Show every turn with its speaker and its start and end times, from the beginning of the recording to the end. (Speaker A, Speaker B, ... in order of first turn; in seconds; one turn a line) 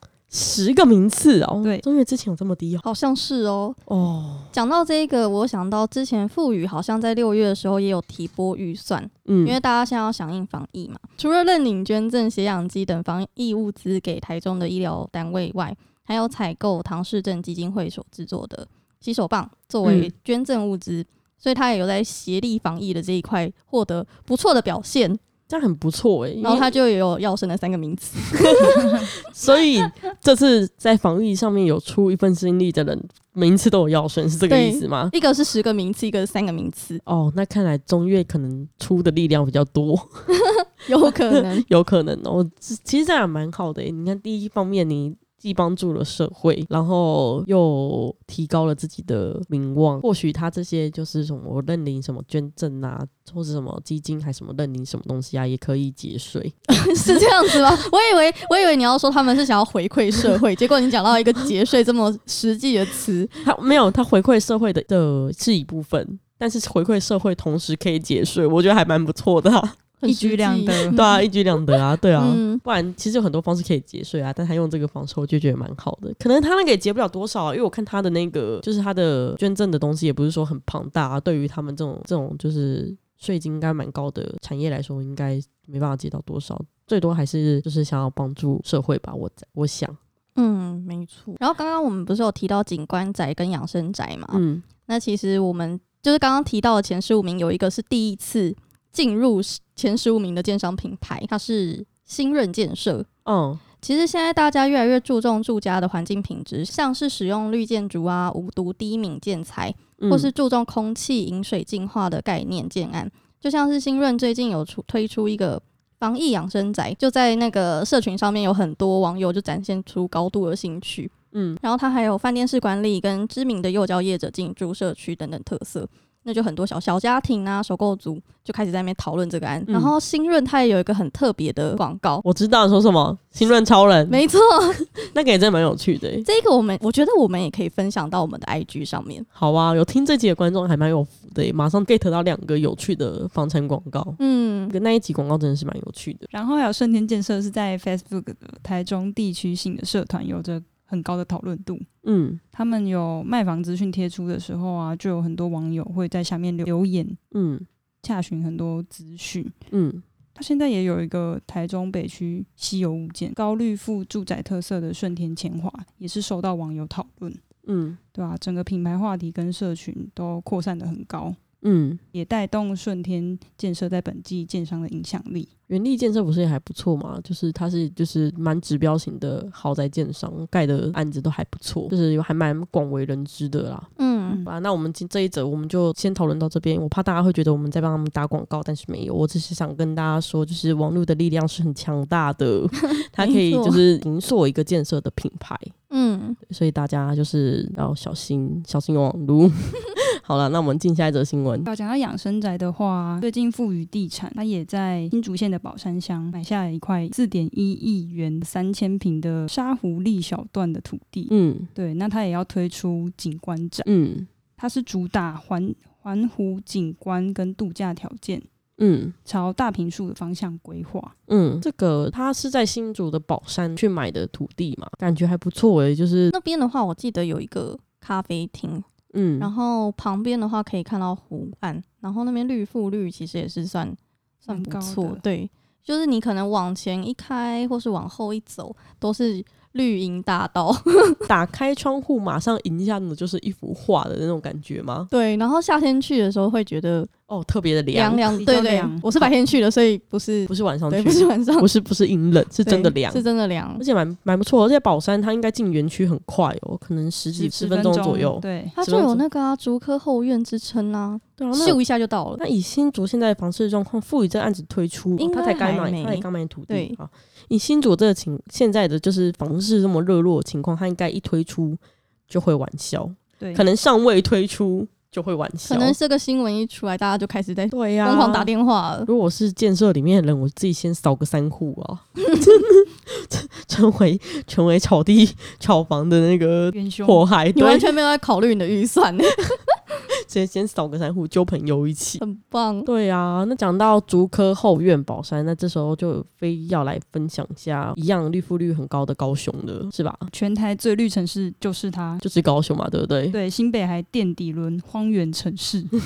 Speaker A: 0.3-2.8
Speaker B: 2.8-3.8
Speaker A: 3.9-4.5
Speaker B: 4.5-25.2
Speaker A: 9.2-9.6
Speaker A: 19.8-20.1
Speaker A: 25.5-26.7
Speaker B: 26.4-28.8
Speaker A: 28.3-35.1
Speaker B: 34.5-37.0
Speaker A: 37.0-40.2
Speaker B: 40.3-41.6
Speaker A: 41.3-56.6
Speaker B: 56.7-63.3
Speaker A: 63.4-69.8
Speaker B: 70.0-72.6
Speaker C: 70.0-71.0
Speaker A: 70.8-90.0
Speaker B: 90.3-103.1
Speaker A: 94.3-94.7
Speaker A: 103.2-103.6
Speaker B: 103.8-132.2
Speaker A: 110.0-110.3
Speaker A: 121.3-121.6
Speaker A: 129.7-129.9
Speaker A: 132.2-134.2
Speaker B: 134.1-135.0
Speaker A: 135.0-136.2
Speaker B: 136.2-139.3
Speaker A: 139.3-146.3
Speaker B: 144.2-144.7
Speaker C: 146.3-151.8
Speaker A: 152.0-152.4
Speaker C: 152.5-157.2
Speaker A: 157.3-157.7
Speaker C: 158.0-159.5
Speaker A: 159.7-160.0
Speaker C: 160.3-167.4
Speaker A: 167.6-168.0
Speaker C: 168.1-171.4
Speaker A: 171.6-172.0
Speaker C: 172.1-175.5
Speaker A: 175.7-183.9
Speaker B: 184.0-184.4
Speaker A: 184.4-195.7
Speaker B: 193.0-193.8
Speaker B: 195.9-196.4
Speaker A: 196.4-201.7
Speaker C: 201.6-213.9
Speaker A: 211.3-211.7
Speaker A: 213.8-214.3
Speaker C: 214.6-218.4
Speaker A: 218.8-219.1
Speaker C: 219.2-221.1
Speaker A: 221.3-226.3
Speaker B: 226.3-228.8
Speaker A: 229.1-229.5
Speaker B: 229.4-241.3
Speaker C: 234.4-235.2
Speaker A: 241.3-245.1
Speaker B: 245.1-247.1
Speaker A: 247.3-248.3
Speaker B: 247.9-251.7
Speaker C: 248.3-249.1
Speaker A: 250.5-253.2
Speaker B: 252.7-253.8
Speaker A: 253.8-259.2
Speaker C: 257.3-258.8
Speaker B: 258.8-262.4
Speaker A: 261.4-261.8
Speaker A: 262.4-275.9
Speaker B: 265.2-267.0
Speaker C: 273.4-273.6
Speaker B: 275.6-279.1
Speaker A: 277.7-278.5
Speaker A: 279.0-287.9
Speaker C: 286.7-287.2
Speaker B: 287.5-289.8
Speaker A: 290.3-292.2
Speaker B: 292.2-292.9
Speaker A: 292.8-300.3
Speaker C: 300.3-302.2
Speaker A: 302.2-303.4
Speaker C: 303.3-305.9